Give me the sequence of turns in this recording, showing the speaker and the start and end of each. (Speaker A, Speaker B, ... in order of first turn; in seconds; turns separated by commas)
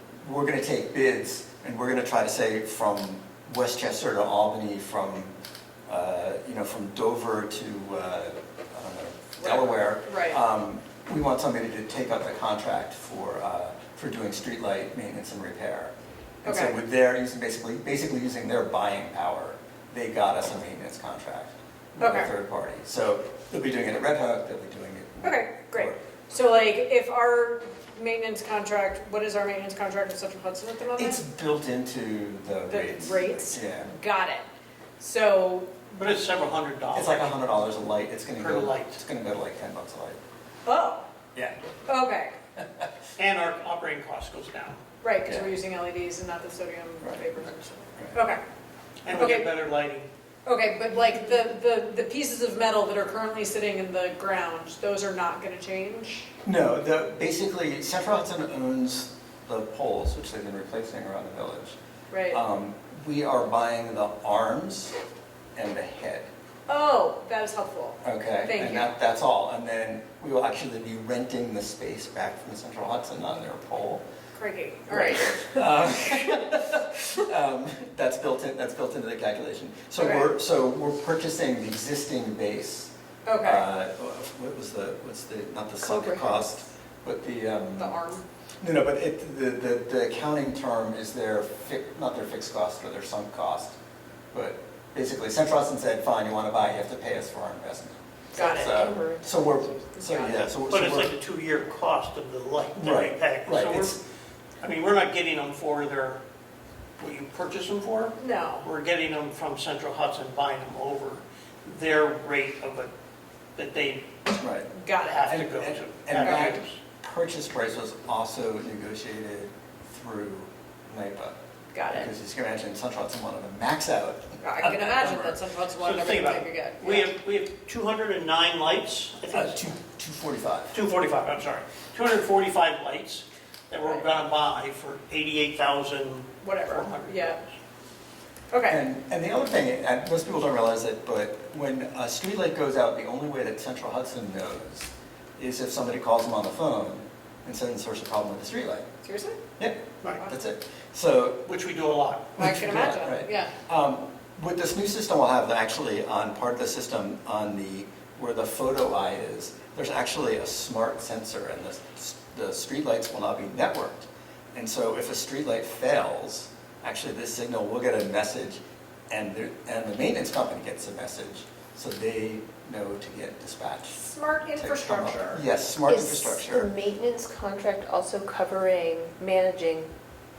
Speaker A: 0.2-5.3, Speaker A: 5.9-26.0, Speaker B: 9.4-10.4, Speaker B: 16.4-16.8, Speaker B: 22.0-22.3, Speaker B: 25.2-31.2, Speaker A: 30.9-33.9, Speaker B: 32.7-34.4, Speaker B: 35.0-35.7, Speaker C: 35.9-37.3, Speaker A: 36.9-40.2, Speaker C: 38.4-39.0, Speaker B: 40.6-41.0, Speaker A: 41.3-41.6, Speaker B: 41.9-42.4, Speaker A: 42.6-42.8, Speaker C: 43.2-44.8, Speaker B: 45.0-48.4, Speaker A: 45.2-45.5, Speaker C: 49.0-50.1, Speaker B: 49.1-49.5, Speaker B: 50.5-56.3, Speaker A: 56.4-61.8, Speaker B: 62.1-62.4, Speaker A: 62.3-64.9, Speaker A: 65.5-66.3, Speaker B: 66.7-69.0, Speaker A: 68.0-74.0, Speaker B: 74.3-75.6, Speaker A: 74.9-88.0, Speaker B: 80.0-80.3, Speaker B: 83.2-83.7, Speaker D: 85.8-86.3, Speaker B: 87.8-88.2, Speaker A: 88.6-93.8, Speaker A: 94.3-101.1, Speaker B: 98.3-98.8, Speaker D: 98.3-100.5, Speaker C: 100.7-104.0, Speaker A: 102.8-104.0, Speaker C: 104.6-106.2, Speaker C: 107.0-112.9, Speaker B: 108.2-108.7, Speaker C: 113.5-114.1, Speaker A: 114.3-114.7, Speaker B: 114.7-115.3, Speaker C: 115.0-116.8, Speaker A: 115.3-121.4, Speaker B: 116.2-116.6, Speaker B: 121.7-122.1, Speaker A: 121.9-125.4, Speaker B: 124.4-127.1, Speaker C: 125.8-129.7, Speaker A: 129.3-130.8, Speaker C: 130.7-137.4, Speaker B: 136.4-137.4, Speaker B: 138.5-138.8, Speaker A: 138.7-148.8, Speaker B: 149.0-149.4, Speaker A: 149.6-151.4, Speaker C: 151.4-152.3, Speaker A: 152.3-176.7, Speaker B: 152.4-153.5, Speaker B: 173.9-175.4, Speaker D: 175.8-179.9